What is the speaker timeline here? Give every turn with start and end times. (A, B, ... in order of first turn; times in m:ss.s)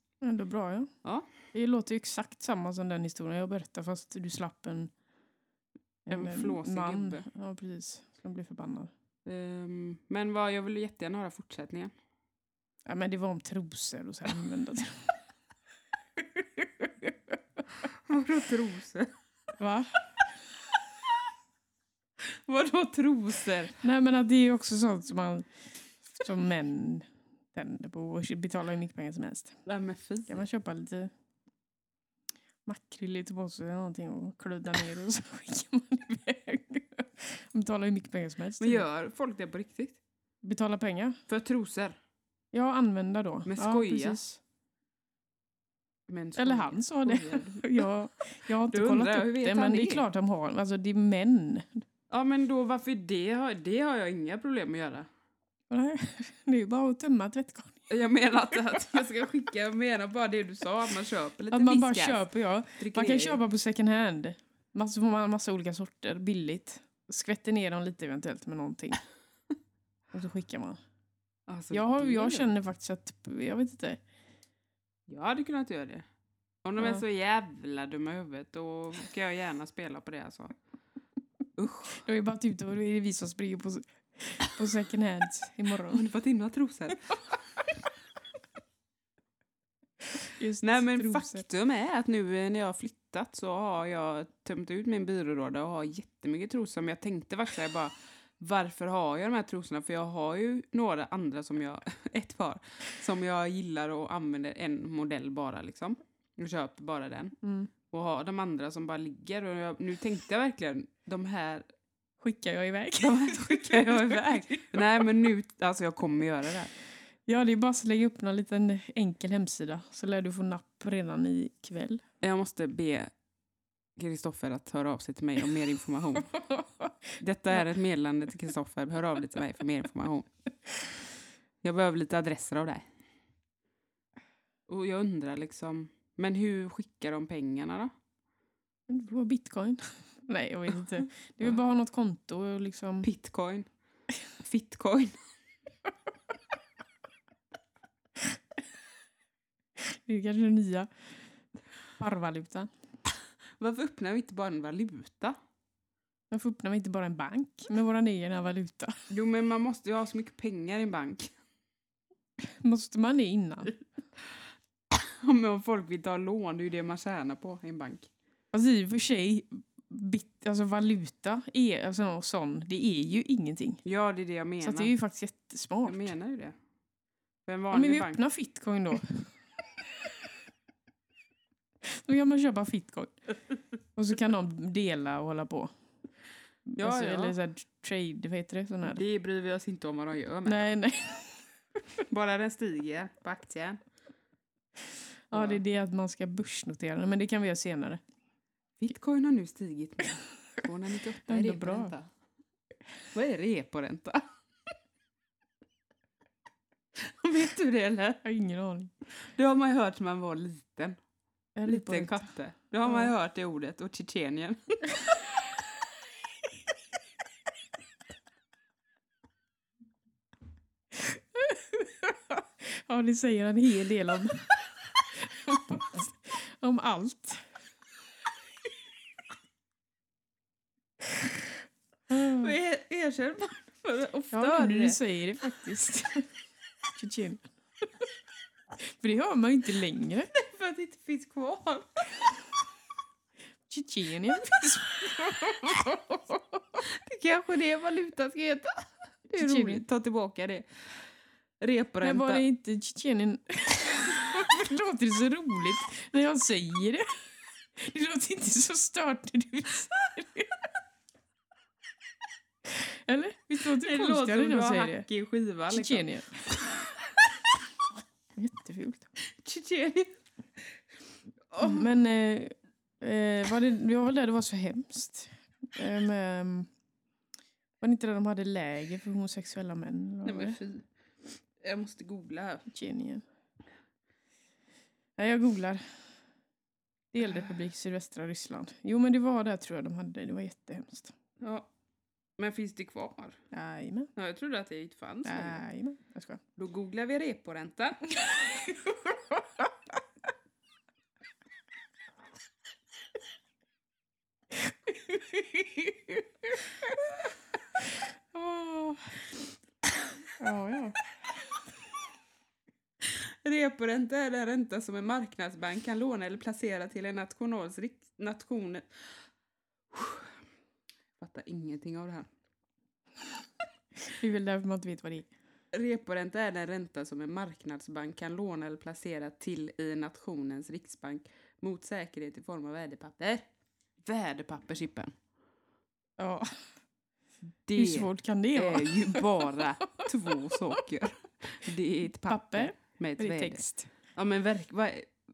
0:00.2-0:00.9 A
0:01.5-0:04.9 A
0:06.1-0:08.9 A
0:06.1-0:07.2 B
0:09.2-0:11.9 B
0:12.8-0:15.2 A
0:16.4-0:17.1 A
0:17.9-0:19.1 B
0:19.6-0:20.0 A
0:22.2-0:23.8 B
0:23.8-0:25.5 A
0:26.1-0:29.6 A
0:29.6-0:30.4 B
0:30.3-0:31.1 A
0:32.6-0:38.8 A
0:38.6-0:40.0 B
0:40.4-0:41.2 A
0:41.3-0:42.0 B
0:42.5-0:44.4 A
0:43.4-0:44.2 B
0:46.1-0:47.9 B
0:46.4-0:51.8 A
0:48.7-0:50.0 B
0:52.1-0:55.1 B
0:55.7-0:57.9 A
0:57.9-1:02.2 B
1:01.5-1:09.0 A
1:02.8-1:03.4 B
1:10.1-1:10.8 A
1:11.5-1:12.5 B
1:11.7-1:14.0 A
1:15.1-1:16.0 B
1:16.6-1:20.5 B
1:16.8-1:17.0 A
1:21.6-1:22.0 B
1:21.9-1:26.0 A
1:25.9-1:27.1 B
1:30.2-1:31.4 A
1:30.6-1:47.4 B
1:47.4-1:47.7 A
1:47.9-1:51.6 B
1:52.2-1:55.0 A
1:53.0-1:56.7 B
1:57.3-2:02.0 A
2:02.2-2:03.1 B
2:04.0-2:06.3 B
2:06.3-2:07.0 A
2:07.2-2:10.3 B
2:11.6-2:12.8 B
2:14.7-2:17.9 B
2:18.9-2:23.1 A
2:23.0-2:23.7 B
2:24.4-2:25.2 B
2:29.8-2:30.9 A
2:32.0-2:32.7 A
2:33.6-2:35.4 B
2:36.3-2:39.0 A
2:39.1-2:41.3 B
2:42.4-2:43.8 A
2:44.9-2:48.1 B
2:48.5-2:53.8 A
2:53.8-2:54.9 B
2:54.6-2:56.1 A
2:55.8-2:56.6 B
2:57.4-2:58.2 B
2:57.7-2:59.3 A
3:01.8-3:03.2 A
3:03.9-3:05.7 A
3:06.7-3:09.0 A
3:06.8-3:07.4 B
3:08.8-3:10.7 B
3:10.4-3:11.5 A
3:12.1-3:13.8 B
3:15.3-3:18.0 A
3:15.3-3:15.6 B
3:18.8-3:22.1 B
3:21.3-3:21.9 A
3:23.1-3:24.2 B
3:26.9-3:28.2 B
3:28.2-3:28.9 A
3:29.2-3:31.0 B
3:31.6-3:32.3 A
3:31.6-3:35.2 B
3:32.8-3:33.1 A
3:40.9-3:44.5 A
3:45.2-3:47.4 A
3:52.1-3:52.5 A
3:52.2-3:55.0 B
3:54.3-3:56.3 A
3:56.9-3:57.4 A
3:58.8-4:00.3 A
4:00.3-4:02.0 B
4:03.7-4:06.8 A
4:06.9-4:10.6 B
4:09.4-4:09.8 A
4:11.6-4:12.4 B
4:12.0-4:17.1 A
4:17.8-4:20.5 A
4:22.7-4:25.0 A
4:23.7-4:26.1 B
4:25.7-4:26.6 A
4:28.4-4:29.1 A
4:29.4-4:30.1 B
4:31.5-4:31.9 B
4:31.6-4:36.7 A
4:37.8-4:40.6 A
4:40.2-4:42.6 B
4:42.7-4:43.2 A
4:45.2-4:45.8 A
4:47.1-4:51.1 A
4:51.4-4:51.7 B
4:52.4-4:53.4 B
4:53.5-4:54.1 A
4:54.2-4:55.6 B
4:55.2-4:56.4 A
4:56.6-4:58.1 B
5:04.9-5:06.6 A
5:08.3-5:09.2 A
5:10.4-5:11.0 A
5:13.0-5:18.9 B
5:19.9-5:20.3 B
5:21.2-5:22.3 B
5:24.1-5:25.3 A
5:25.7-5:33.4 B
5:34.0-5:35.1 B
5:36.2-5:36.5 A
5:37.6-5:43.6 B
5:37.8-5:40.0 A
5:42.2-5:43.9 A
5:44.1-5:45.1 B